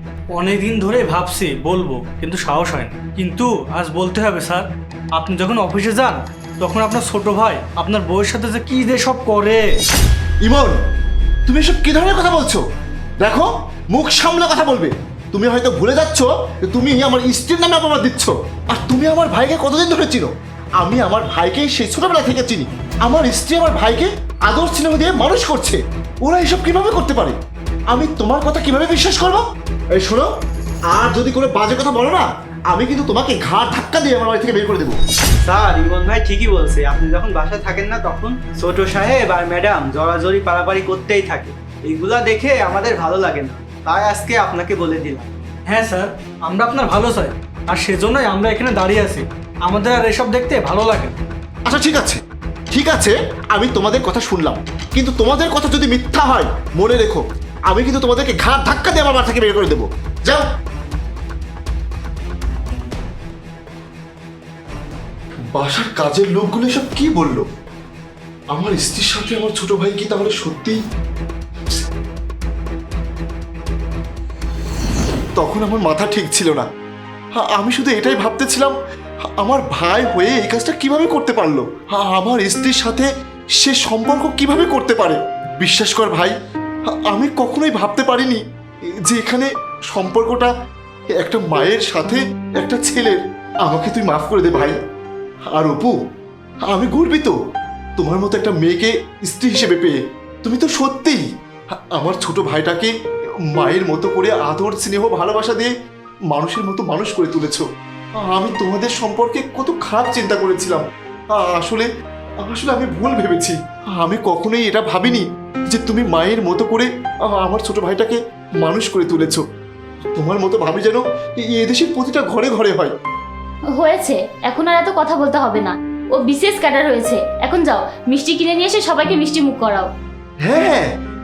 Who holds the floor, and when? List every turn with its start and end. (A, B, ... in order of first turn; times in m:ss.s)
0:00.3-0:09.8 A
0:10.4-0:10.8 B
0:11.4-0:12.6 B
0:13.2-0:27.4 B
0:27.9-0:29.4 B
0:29.9-0:30.3 B
0:30.9-0:35.0 B
0:35.4-0:45.3 C
0:45.7-0:51.1 A
0:51.7-0:52.2 B
0:52.7-1:00.5 B
1:05.5-1:07.4 B
1:08.5-1:10.8 B
1:15.4-1:16.7 B
1:17.4-1:18.7 B
1:19.4-1:23.1 B
1:23.6-1:26.3 B
1:27.1-1:28.4 B
1:29.0-1:30.5 B
1:31.2-1:34.8 B
1:35.5-1:36.0 B
1:36.7-1:37.3 B
1:38.0-1:41.2 B
1:41.9-1:42.9 B
1:43.5-1:45.7 B
1:46.3-1:47.6 B
1:48.2-1:51.9 B
1:52.4-1:59.4 B
2:00.1-2:02.9 B
2:03.8-2:09.9 D
2:10.4-2:10.9 B